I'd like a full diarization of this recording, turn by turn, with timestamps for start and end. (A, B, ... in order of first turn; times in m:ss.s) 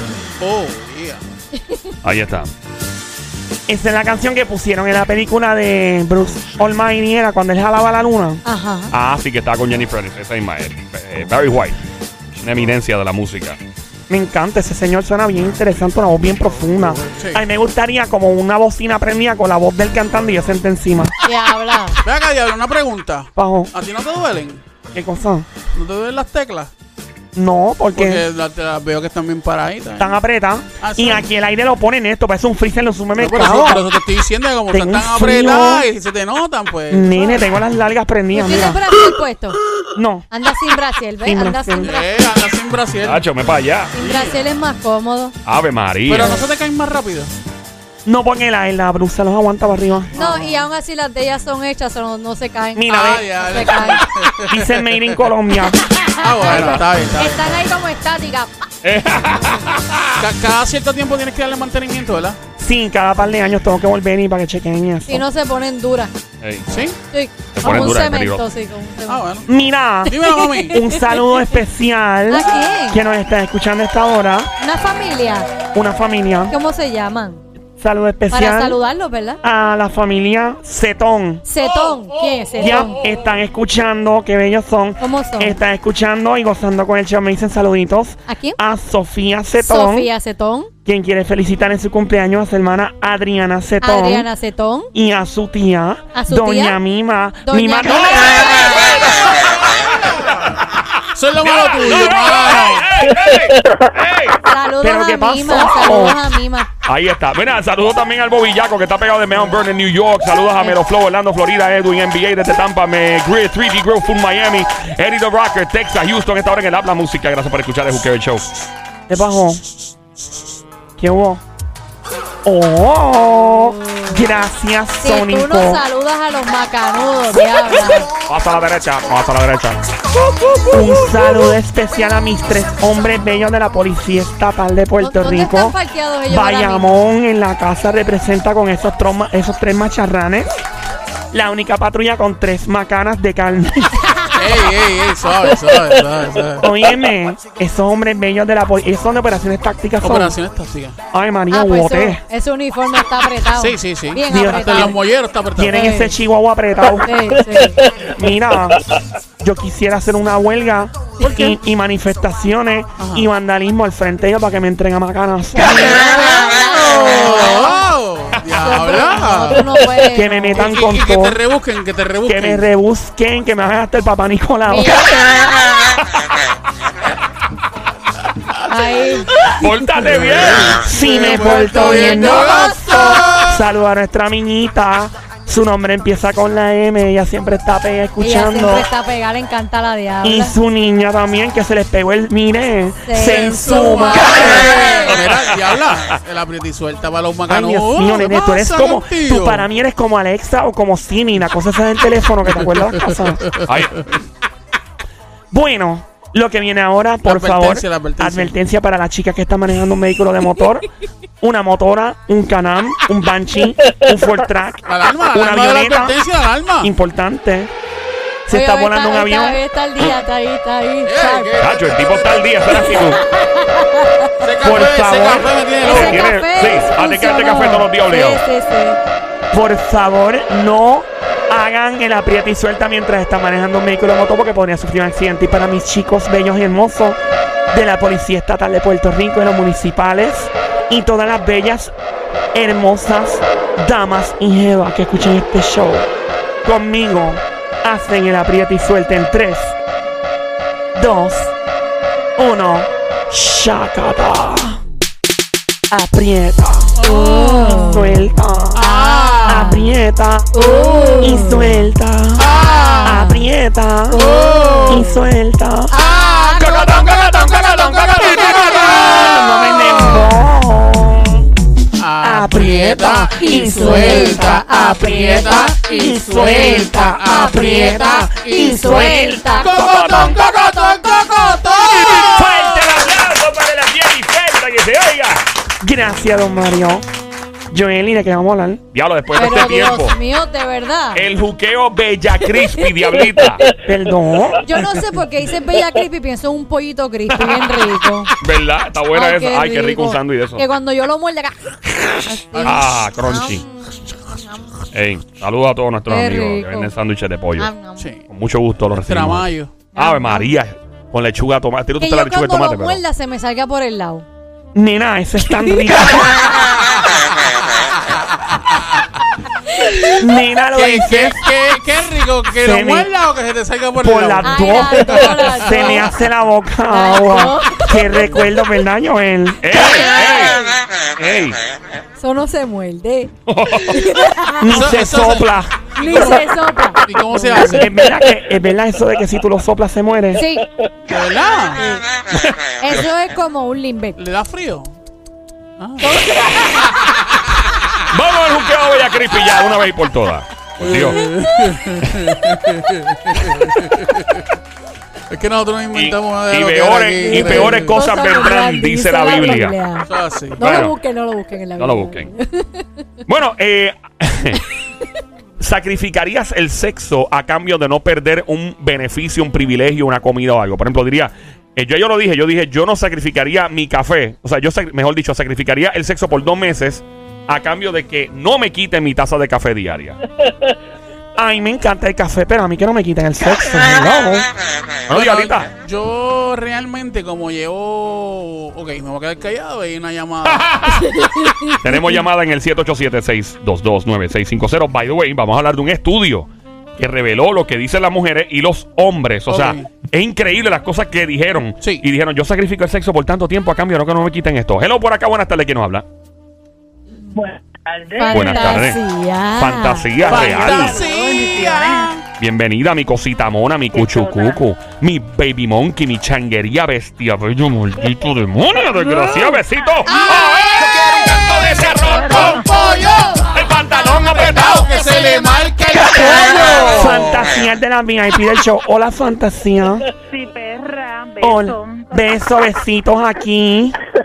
0:00.4-0:01.2 A
0:02.0-0:02.5 B
0:03.7-0:08.4 C
0:08.4-0:08.9 D
0:08.9-0:11.8 B
0:12.4-0:13.6 B
0:14.1-0:21.1 C
0:17.2-0:17.4 A
0:21.2-0:22.0 D
0:22.0-0:24.6 A
0:23.4-0:23.7 C
0:24.9-0:25.5 C
0:25.7-0:26.7 A
0:27.4-0:28.2 C
0:28.0-0:30.2 A
0:30.0-0:33.9 C
0:30.8-0:31.2 A
0:33.2-0:37.4 A
0:34.7-0:35.9 C
0:36.9-0:38.8 C
0:38.3-0:39.6 D
0:40.0-0:40.3 C
0:40.3-0:42.1 D
0:41.2-0:41.9 C
0:41.8-0:43.2 A
0:43.0-0:43.9 B
0:43.9-0:45.4 D
0:44.0-0:44.4 A
0:45.4-0:46.4 B
0:46.1-0:47.3 A
0:48.0-0:50.1 C
0:50.1-0:50.6 A
0:50.2-0:54.0 D
0:52.8-0:53.3 C
0:52.9-0:55.2 A
0:54.5-0:55.8 C
0:56.0-0:56.6 D
0:56.2-0:57.5 A
0:57.2-0:58.5 D
0:58.8-1:00.2 B
1:00.2-1:02.4 A
1:02.6-1:05.2 C
1:05.1-1:06.1 D
1:06.7-1:07.0 A
1:07.1-1:09.3 D
1:07.5-1:08.4 B
1:09.1-1:09.5 A
1:09.5-1:10.2 C
1:10.1-1:11.2 D
1:10.1-1:10.8 A
1:10.7-1:14.5 C
1:12.3-1:13.0 D
1:14.6-1:15.5 D
1:15.7-1:16.6 C
1:16.5-1:17.4 D
1:17.8-1:18.8 C
1:18.3-1:19.4 D
1:19.4-1:21.4 C
1:21.4-1:23.0 D
1:21.6-1:23.1 A
1:22.6-1:30.1 C
1:25.0-1:25.6 D
1:28.3-1:28.6 D
1:29.6-1:30.7 D
1:30.9-1:34.3 C
1:33.8-1:34.9 D
1:34.9-1:38.6 C
1:36.2-1:36.8 D
1:37.4-1:38.9 D
1:38.2-1:44.4 B
1:41.2-1:42.9 A
1:44.5-1:46.7 D
1:44.8-1:46.2 C
1:46.9-1:58.5 B
1:59.1-1:59.6 C
2:01.0-2:01.4 C
2:02.4-2:05.8 C
2:03.8-2:04.2 D
2:05.0-2:08.1 D
2:08.3-2:09.8 B
2:10.7-2:15.8 C
2:15.0-2:16.9 D
2:16.3-2:20.5 C
2:21.3-2:24.0 C
2:24.4-2:26.7 A
2:26.6-2:30.4 C
2:30.0-2:31.0 A
2:31.1-2:32.2 C
2:31.5-2:35.0 D
2:33.6-2:35.8 A
2:34.3-2:35.0 C
2:35.6-2:37.2 C
2:35.7-2:36.2 D
2:37.0-2:37.8 D
2:38.2-2:38.8 C
2:39.4-2:46.0 C
2:41.2-2:41.5 A
2:43.0-2:43.3 A
2:45.6-2:47.8 D
2:46.4-2:49.6 A
2:48.6-2:50.7 D
2:50.1-2:51.4 C
2:50.6-2:52.7 A
2:52.3-2:55.2 C
2:54.7-2:55.2 D
2:58.7-2:59.4 D
2:59.4-3:03.6 A
2:59.6-3:00.8 B
3:00.7-3:08.9 C
3:01.4-3:02.8 D
3:08.2-3:10.6 D
3:10.2-3:14.9 C
3:13.1-3:13.5 D
3:13.2-3:19.7 A
3:14.2-3:15.2 D
3:17.5-3:23.5 C
3:23.1-3:24.1 A
3:23.7-3:24.0 B
3:25.5-3:30.9 C
3:27.2-3:28.6 A
3:31.4-3:36.2 C
3:34.9-3:36.9 A
3:36.8-3:37.7 C
3:38.5-3:39.6 C
3:38.5-3:41.5 D
3:41.0-3:42.7 A
3:41.6-3:43.2 B
3:42.7-3:44.3 D
3:44.4-3:46.3 A
3:44.6-3:45.5 C
3:45.8-3:49.0 D
3:45.9-3:48.4 B
3:49.5-3:57.2 C
3:57.7-4:01.9 C
4:02.5-4:06.1 C
4:06.6-4:09.8 C
4:11.0-4:11.5 C
4:12.4-4:14.8 C
4:15.9-4:17.0 C
4:17.0-4:17.9 A
4:17.0-4:18.1 D
4:17.6-4:18.8 C
4:18.8-4:19.7 A
4:18.8-4:19.9 D
4:19.4-4:20.5 C
4:20.5-4:21.8 D
4:20.6-4:21.4 A
4:21.2-4:22.5 C
4:22.4-4:23.2 A
4:22.6-4:23.5 D
4:23.0-4:24.2 C
4:24.1-4:25.2 D
4:24.2-4:25.1 A
4:24.9-4:25.9 C
4:25.9-4:26.8 D
4:25.9-4:30.2 A
4:26.6-4:29.0 B
4:29.0-4:31.5 C
4:32.0-4:42.7 A
4:32.2-4:39.5 C
4:33.4-4:40.5 D
4:39.8-4:40.4 B
4:42.3-4:45.4 B
4:45.8-4:47.0 C
4:47.7-4:48.8 C
4:48.9-4:50.2 B
4:49.4-4:51.3 D
4:51.2-4:53.7 B
4:53.8-4:54.6 C
4:54.6-4:58.3 D
4:58.4-5:00.6 B
4:59.1-5:01.7 D
5:02.3-5:04.7 D
5:02.5-5:03.0 A
5:02.6-5:03.6 B
5:04.9-5:07.7 B
5:06.1-5:06.9 D
5:07.6-5:08.1 D
5:08.0-5:08.3 A
5:08.3-5:13.0 B
5:09.0-5:09.8 A
5:09.9-5:10.5 D
5:12.0-5:14.3 D
5:14.7-5:16.6 C
5:15.5-5:15.8 D
5:16.2-5:17.0 A
5:18.1-5:19.0 A
5:20.2-5:21.5 C
5:20.7-5:26.1 A
5:22.6-5:23.1 C
5:24.0-5:29.6 C
5:24.4-5:26.1 D
5:26.9-5:28.2 D
5:29.6-5:30.6 B
5:29.7-5:30.8 D
5:31.2-5:31.6 B
5:32.2-5:34.8 D
5:33.5-5:34.1 B
5:34.6-5:35.8 C
5:34.7-5:37.9 A
5:36.0-5:37.9 D
5:37.8-5:40.4 C
5:40.4-5:40.7 D
5:41.1-5:41.8 A
5:41.8-5:42.0 D
5:42.3-5:43.1 B
5:42.8-5:44.2 D
5:44.2-5:44.9 A
5:45.8-5:46.2 A
5:46.0-5:46.9 D
5:46.8-5:47.5 A
5:48.1-5:51.2 B
5:50.8-5:54.4 A
5:55.3-5:58.0 A
5:56.0-5:59.8 B
5:57.3-6:03.0 D
6:00.1-6:00.6 A
6:00.6-6:01.0 B
6:01.8-6:02.3 B
6:03.3-6:04.6 B
6:05.6-6:20.2 B
6:21.4-6:24.5 C
6:25.1-6:25.7 B
6:25.1-6:30.7 A
6:30.5-6:31.0 B
6:30.9-6:32.2 D
6:31.8-6:46.0 B
6:39.5-6:39.9 A
6:47.3-6:48.8 E
6:48.2-6:50.1 D
6:48.3-6:49.0 B
6:49.6-6:51.0 B
6:50.2-6:52.1 E
6:50.2-6:52.2 A
6:52.4-7:02.6 B
6:53.9-6:54.6 E
7:00.1-7:00.8 D
7:00.2-7:00.8 A
7:02.1-7:02.6 E
7:02.2-7:07.5 A
7:03.5-7:04.9 B
7:04.9-7:06.9 D
7:06.9-7:10.1 C
7:10.3-7:12.3 E
7:11.4-7:14.0 C